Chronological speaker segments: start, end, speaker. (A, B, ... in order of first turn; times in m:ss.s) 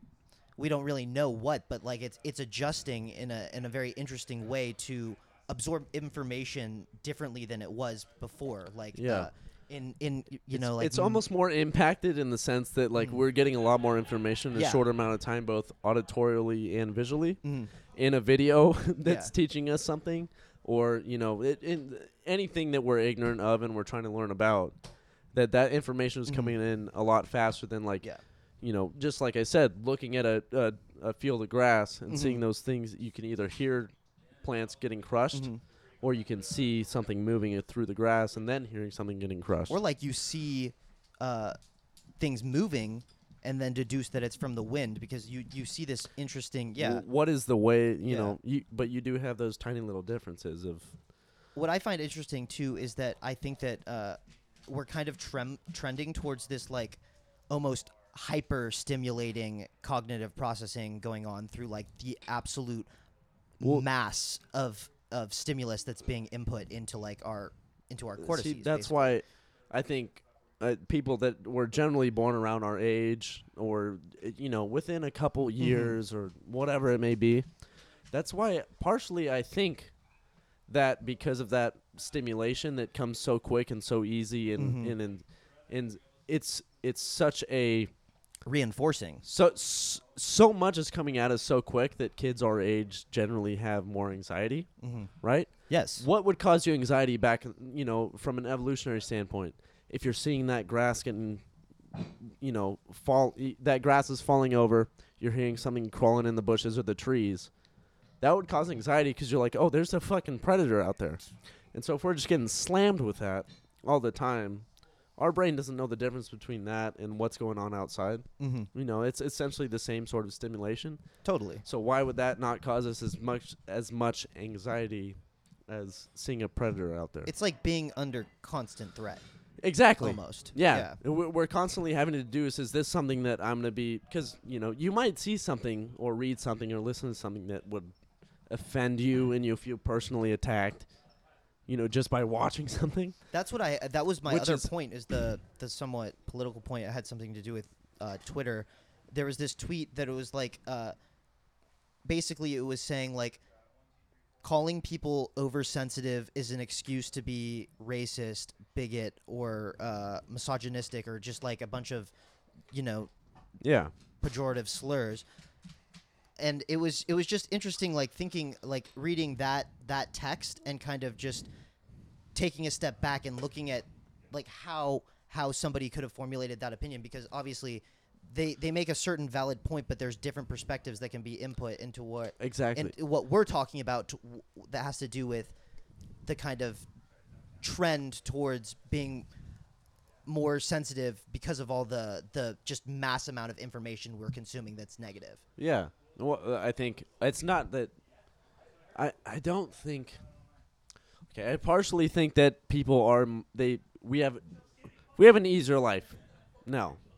0:00.6-0:11.2 A
0:08.9-0:09.3 B
0:10.5-0:17.4 B
0:13.0-0:13.2 A
0:14.5-0:14.9 A
0:17.4-0:17.7 A
0:17.9-0:24.8 B
0:19.0-0:19.3 A
0:25.3-0:39.8 B
0:26.3-0:26.6 A
0:32.1-0:32.4 A
0:35.3-0:35.6 A
0:39.7-0:41.6 A
0:42.2-0:47.0 A
0:46.8-0:50.9 B
0:48.0-0:48.4 A
0:51.5-1:02.9 A
1:03.6-1:09.2 A
1:03.6-1:03.9 B
1:08.2-1:17.4 B
1:15.6-1:16.0 A
1:18.1-1:19.9 B
1:20.7-1:27.9 B
1:24.6-1:25.0 A
1:28.4-1:29.2 A
1:29.2-1:34.7 B
1:34.8-1:35.1 A
1:35.2-1:41.4 B
1:35.7-1:36.0 A
1:42.3-1:47.5 B
1:48.2-1:51.2 B
1:51.7-1:54.6 B
1:55.2-2:01.0 B
1:58.4-1:58.7 A
2:01.2-2:01.6 A
2:01.6-2:07.3 B
2:07.2-2:09.2 A
2:09.6-2:17.9 B
2:10.0-2:11.0 A
2:18.5-2:20.9 B
2:21.7-2:23.2 B
2:23.3-2:31.0 A
2:24.2-2:24.7 B
2:32.0-2:33.4 A
2:34.4-2:42.1 A
2:42.7-2:43.1 A
2:43.6-2:43.9 B
2:44.2-2:45.2 A
2:46.4-2:51.5 A
2:52.3-3:05.5 A
3:02.4-3:03.0 B
3:06.2-3:06.9 A
3:07.6-3:09.3 A
3:10.2-3:15.4 A
3:15.6-3:17.9 B
3:18.9-3:20.2 B
3:21.3-3:24.5 B
3:25.2-3:27.0 B